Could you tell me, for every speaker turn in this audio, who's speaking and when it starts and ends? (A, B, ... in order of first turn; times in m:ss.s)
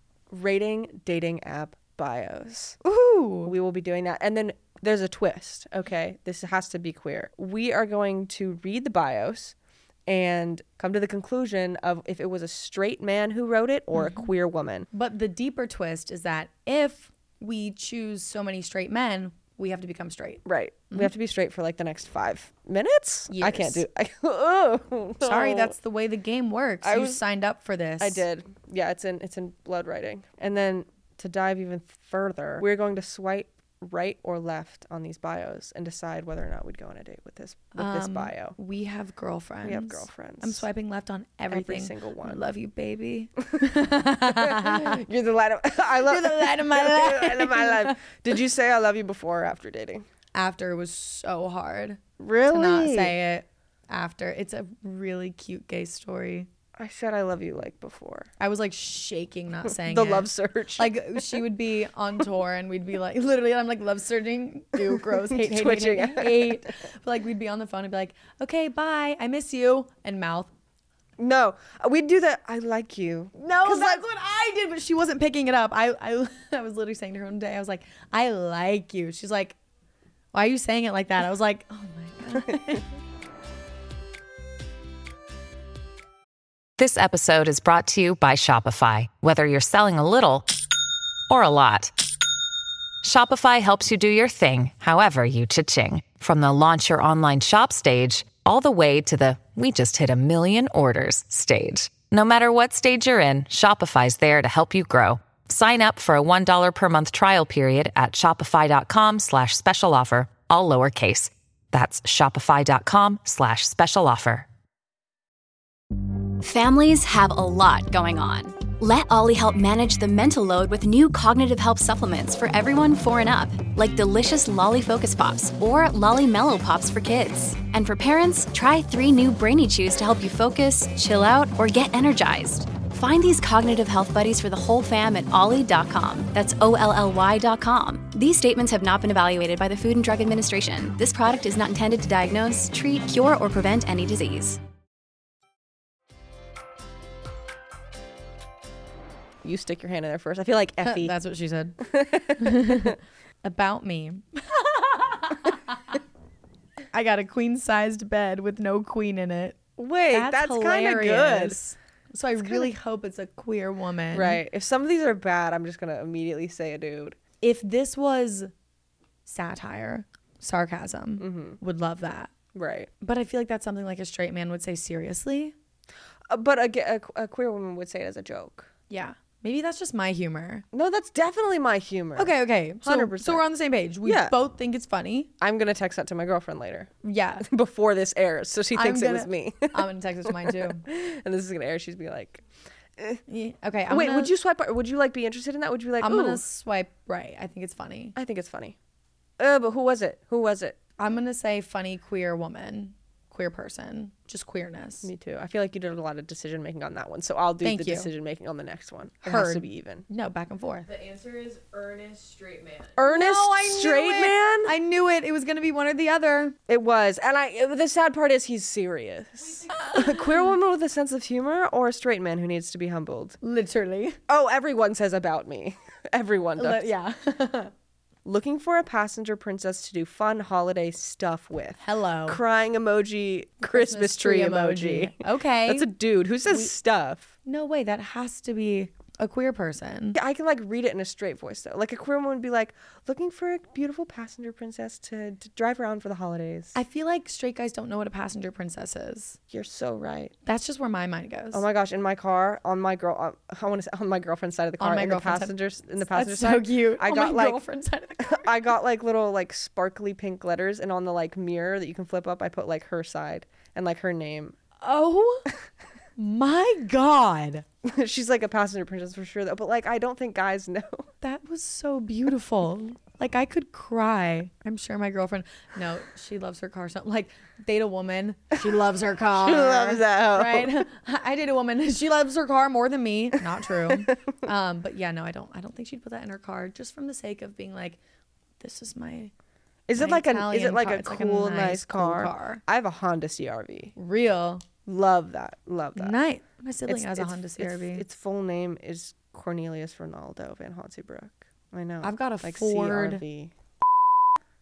0:00.3-0:02.8 A
0:02.8-0:03.5 B
0:03.4-0:14.9 A
0:14.0-0:14.3 B
0:14.9-0:21.1 B
0:20.4-0:25.8 A
0:23.3-0:23.8 B
0:25.2-0:28.2 B
0:26.8-0:27.2 A
0:28.0-0:38.6 A
0:37.8-0:45.0 B
0:39.6-0:40.6 A
0:41.5-0:42.4 A
0:43.6-0:50.0 A
0:45.9-0:48.1 B
0:50.3-0:56.5 B
0:52.2-0:53.2 A
0:56.8-0:58.3 A
0:58.4-1:10.5 B
0:59.7-1:01.4 A
1:04.8-1:06.7 A
1:11.2-1:14.0 A
1:13.4-1:19.6 B
1:20.3-1:22.8 B
1:26.8-1:30.5 C
1:31.3-1:32.0 C
1:33.0-1:54.5 C
1:56.4-2:24.6 D
2:29.4-2:31.2 A
2:30.8-2:35.8 B
2:31.8-2:33.0 A
2:36.9-2:39.6 B
2:39.8-2:41.6 A
2:40.1-2:44.4 B
2:42.4-2:42.7 A
2:44.1-2:47.2 A
2:47.4-2:48.5 B
2:49.2-2:52.3 B
2:51.2-2:51.6 A
2:52.5-2:52.9 A
2:53.0-2:55.6 B
2:56.3-2:58.7 A
2:58.9-3:00.6 B
3:00.7-3:03.5 A
3:02.2-3:05.3 B
3:04.0-3:04.4 A
3:05.4-3:06.9 A
3:07.0-3:07.5 B
3:07.4-3:12.4 A
3:08.7-3:10.8 B
3:13.3-3:14.3 B
3:13.9-3:16.4 A
3:16.0-3:18.2 B
3:18.2-3:18.8 A
3:19.4-3:20.8 A
3:21.0-3:25.1 B
3:25.0-3:30.0 A
3:27.6-3:28.1 B
3:29.2-3:30.9 B
3:30.9-3:33.0 E
3:33.0-3:34.7 A
3:33.0-3:36.6 B
3:36.7-3:43.4 A
3:39.4-3:39.9 E
3:39.8-3:40.2 B
3:43.4-3:44.2 B
3:44.3-3:46.9 A
3:46.6-3:47.7 B
3:48.2-3:57.3 A
3:51.8-3:52.4 B
3:53.6-3:55.9 B
3:56.5-3:56.7 B
3:57.5-4:00.2 B
4:00.1-4:06.8 A
4:06.8-4:09.4 B
4:09.5-4:10.3 A
4:10.4-4:11.6 B
4:11.5-4:17.6 A
4:14.8-4:18.5 B
4:18.2-4:24.6 A
4:24.8-4:25.5 B
4:26.2-4:27.6 B
4:27.8-4:31.1 A
4:31.2-4:48.0 B
4:39.3-4:40.8 A
4:48.6-4:49.3 B
4:49.9-4:53.9 A
4:50.0-4:52.6 B
4:54.0-4:54.6 B
4:54.9-4:56.2 A
4:56.0-4:58.0 B
4:56.9-5:03.5 A
5:02.0-5:03.2 B